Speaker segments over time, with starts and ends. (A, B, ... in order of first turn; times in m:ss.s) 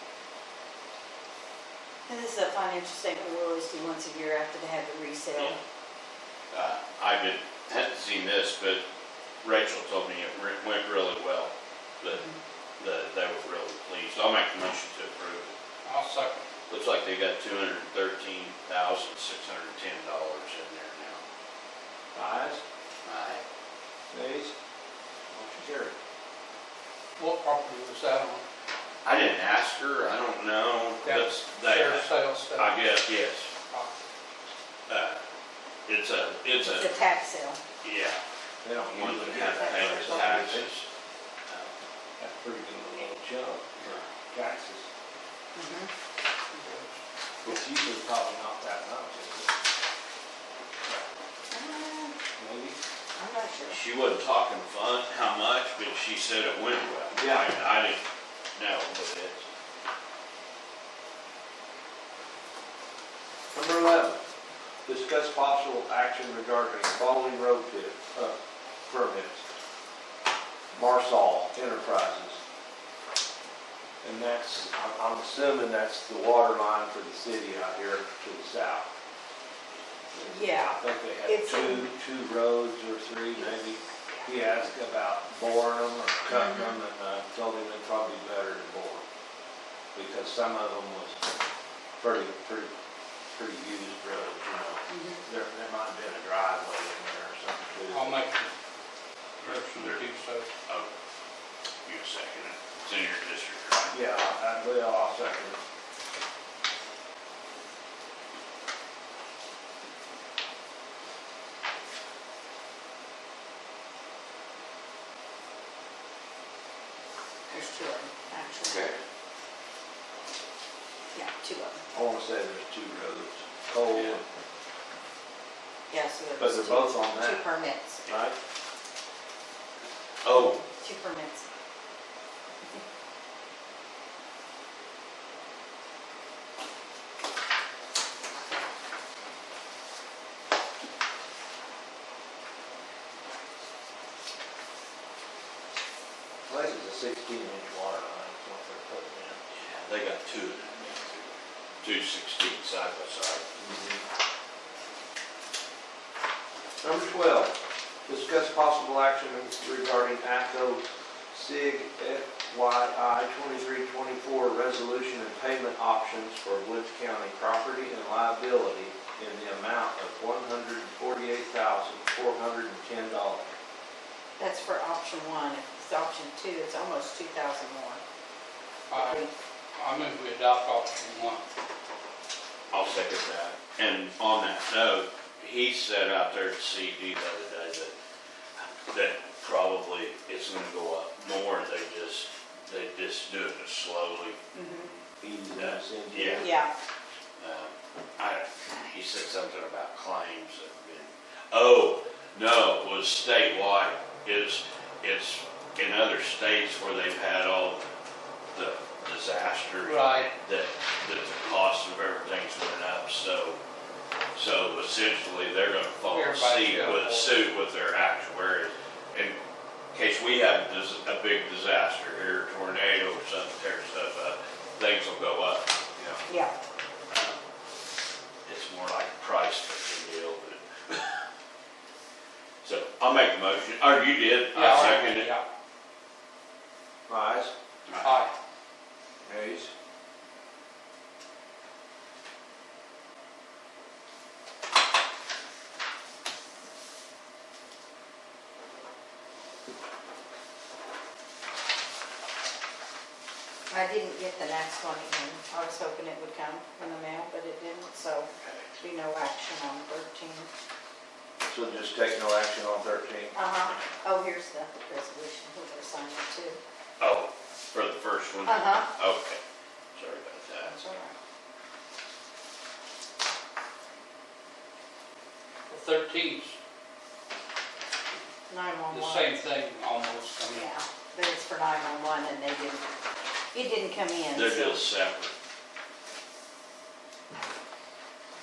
0:02.1-0:05.6 A
0:06.5-0:08.8 B
0:09.4-0:12.2 B
0:12.8-0:15.5 B
0:15.8-0:16.4 C
0:16.7-0:21.2 B
0:22.2-0:22.6 D
0:23.0-0:23.4 B
0:24.1-0:24.5 D
0:25.3-0:26.0 D
0:27.2-0:28.5 C
0:29.0-0:33.5 B
0:31.0-0:32.7 C
0:34.9-0:35.2 B
0:35.9-0:36.9 B
0:36.6-0:37.6 A
0:37.8-0:38.2 B
0:38.6-0:40.7 D
0:38.9-0:40.9 B
0:39.6-0:40.4 A
0:42.2-0:44.9 D
0:45.6-0:45.9 A
0:46.5-0:46.9 C
0:47.4-0:49.5 D
0:51.5-0:52.2 A
0:52.4-0:52.8 D
0:53.2-0:53.8 A
0:53.7-0:58.0 B
0:57.2-0:57.6 D
0:58.6-0:59.4 B
1:03.5-1:04.2 D
1:04.9-1:09.4 D
1:10.7-1:12.4 D
1:14.0-1:18.9 D
1:20.1-1:29.0 D
1:20.3-1:21.9 A
1:23.4-1:24.3 A
1:26.4-1:26.7 A
1:30.0-1:31.2 D
1:32.0-1:32.7 D
1:33.3-1:38.2 D
1:34.9-1:35.2 A
1:37.9-1:38.5 C
1:39.4-1:40.0 B
1:39.4-1:40.5 C
1:41.8-1:44.0 B
1:43.9-1:45.6 D
1:57.5-1:58.8 A
1:58.7-1:59.0 B
2:01.1-2:01.8 A
2:01.9-2:04.2 D
2:05.9-2:08.0 A
2:06.4-2:07.4 D
2:08.1-2:08.4 D
2:10.2-2:10.6 B
2:10.6-2:11.4 A
2:26.5-2:29.4 D
2:29.5-2:33.5 B
2:33.6-2:34.0 D
2:36.8-2:37.6 D
2:38.1-2:53.5 D
2:54.4-2:58.0 A
2:58.9-3:01.4 C
2:58.9-2:59.3 A
3:02.7-3:07.9 B
3:08.6-3:14.4 B
3:14.5-3:14.9 A
3:15.2-3:16.5 D
3:16.1-3:16.5 B
3:16.4-3:16.7 A
3:17.4-3:27.9 B
3:28.5-3:33.6 B
3:29.8-3:30.3 C
3:34.3-3:39.4 B
3:36.0-3:37.4 C
3:39.9-3:46.2 B
3:46.3-3:46.5 A
3:47.1-3:47.4 B
3:48.5-3:51.2 B
3:52.6-3:55.3 B
3:54.5-3:55.4 C
3:57.1-3:57.5 D
3:57.9-3:58.2 B
3:58.0-3:58.3 C
3:59.2-3:59.7 D
4:13.7-4:20.5 A
4:18.3-4:18.7 B
4:21.5-4:23.4 D
4:23.4-4:26.6 A
4:27.0-4:29.4 B
4:28.5-4:28.9 A
4:30.0-4:30.8 B
4:30.6-4:31.2 A
4:35.7-4:36.6 C
4:38.5-4:39.3 A
4:38.9-4:40.7 C
4:40.5-4:42.9 A
4:43.5-4:44.8 A
4:44.3-4:45.3 B